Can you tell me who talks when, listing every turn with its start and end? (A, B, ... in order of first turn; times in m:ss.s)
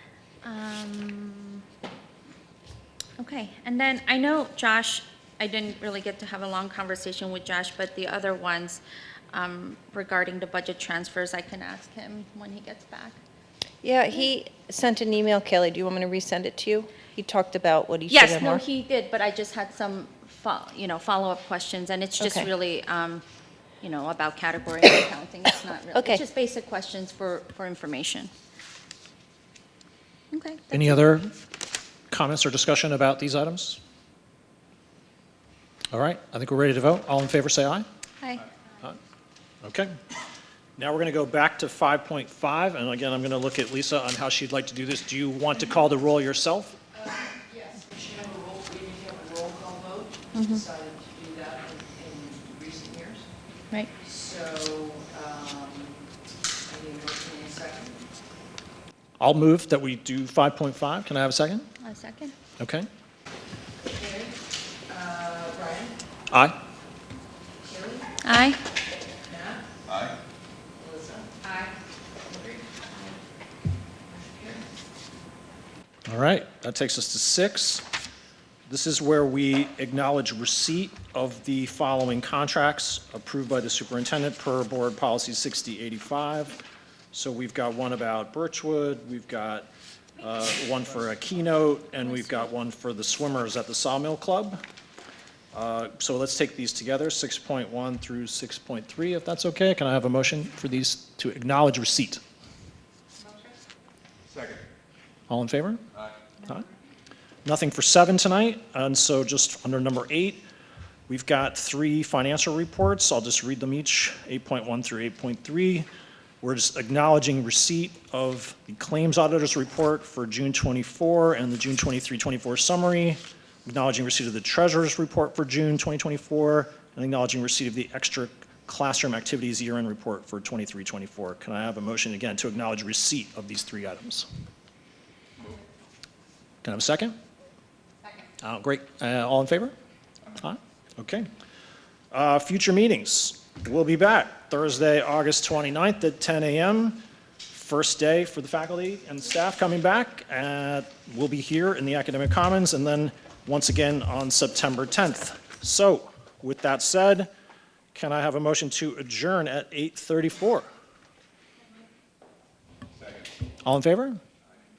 0:00.4-0:01.6 A
0:03.2-0:13.2 A
0:13.8-0:18.6 B
0:18.1-0:23.2 A
0:22.2-0:22.5 B
0:23.8-0:28.3 A
0:26.0-0:26.2 B
0:30.3-0:31.0 A
0:30.7-0:31.4 C
0:32.1-0:33.8 C
0:35.9-0:37.9 C
0:39.6-0:39.9 C
0:40.8-0:46.8 C
0:47.0-0:53.3 D
0:50.3-0:50.6 A
0:54.0-0:56.0 D
0:56.7-0:58.0 D
0:59.2-1:01.7 C
1:01.8-1:02.3 A
1:02.6-1:02.9 C
1:03.9-1:04.4 D
1:04.9-1:06.0 D
1:06.3-1:06.6 C
1:07.6-1:08.0 D
1:08.2-1:08.6 A
1:09.3-1:09.6 D
1:10.8-1:11.7 D
1:12.3-1:13.0 D
1:14.1-1:14.6 D
1:16.1-1:17.9 C
1:18.7-1:26.6 C
1:27.1-1:29.7 C
1:30.2-1:34.6 C
1:35.5-1:42.2 C
1:45.3-1:45.8 C
1:47.4-1:50.4 C
1:51.1-1:55.9 C
1:56.4-2:14.3 C
2:16.6-2:17.2 C
2:18.4-2:19.7 C
2:20.4-2:21.3 C
2:22.1-2:37.3 C
2:37.9-2:40.7 C
2:43.6-2:44.2 C